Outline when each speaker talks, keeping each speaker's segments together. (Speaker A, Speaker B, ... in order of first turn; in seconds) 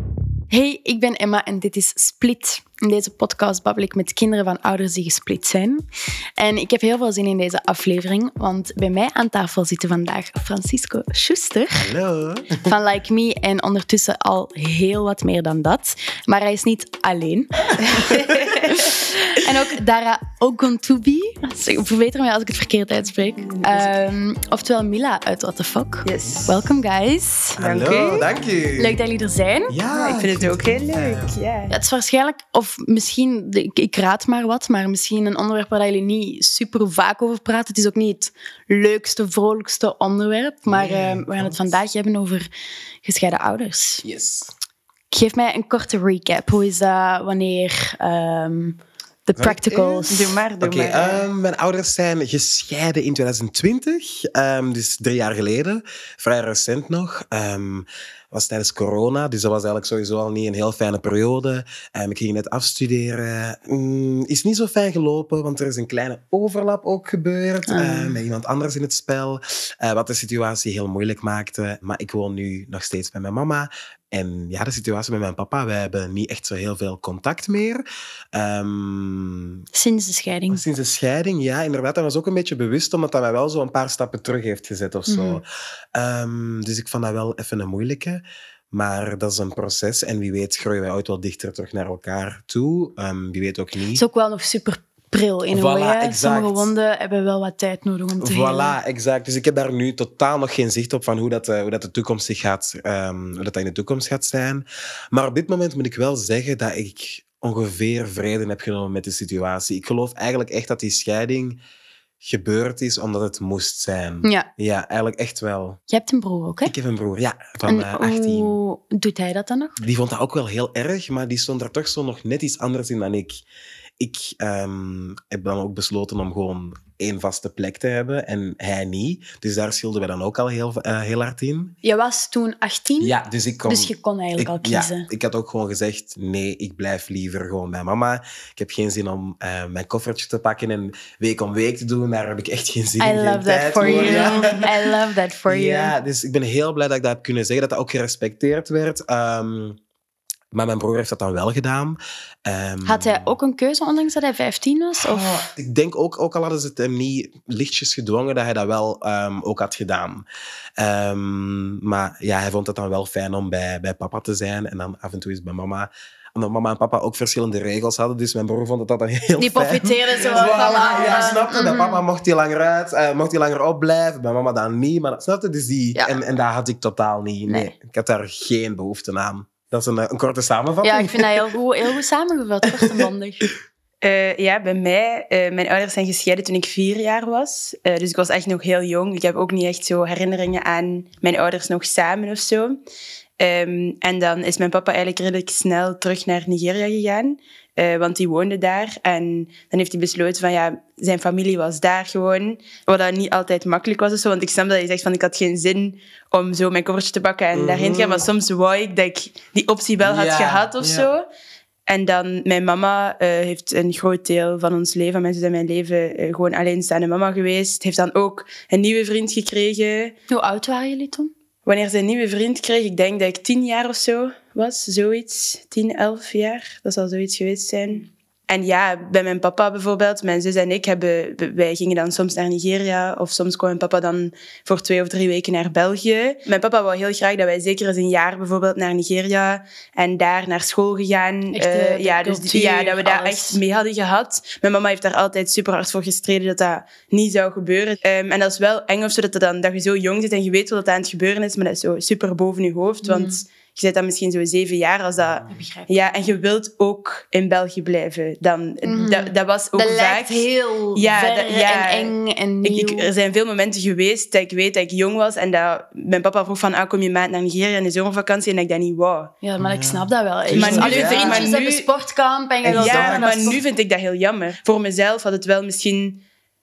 Speaker A: 0.5-5.8, 6.4-11.9, 12.6-18.1, 18.7-27.6, 28.8-30.2, 31.7-42.5, 43.0-44.0, 45.1-50.4, 67.7-68.2, 79.7-80.6, 85.1-85.4, 94.0-98.8, 114.2-114.5, 115.9-116.7, 117.7-119.8, 131.8-133.2, 133.7-135.1, 143.0-145.9, 152.8-155.5, 169.4-172.0, 177.5-177.7, 180.8-183.5, 220.3-221.3, 241.5-243.6, 253.0-253.4, 255.5-255.9, 258.9-263.1, 269.4-273.6
Speaker B: 11.8-12.7, 17.8-18.4, 27.6-29.0, 29.7-31.3, 40.6-41.8, 44.0-44.5, 49.4-77.8, 78.3-79.7, 80.5-94.0, 95.5-96.7, 98.2-111.6, 112.2-115.8, 116.7-118.6, 119.8-123.4, 124.0-131.8, 133.0-144.7, 145.5-149.8, 150.5-153.3, 155.0-160.2, 160.8-181.5, 207.5-208.3, 210.0-211.1, 255.2-255.5, 269.6-271.5, 272.6-273.6
Speaker C: 17.9-18.8, 23.4-23.9, 26.1-26.5, 27.6-28.3, 30.1-31.8, 50.1-51.2, 143.8-144.7, 184.0-192.8, 193.4-211.2, 211.9-220.2, 221.7-269.3, 270.6-271.9, 272.7-276.2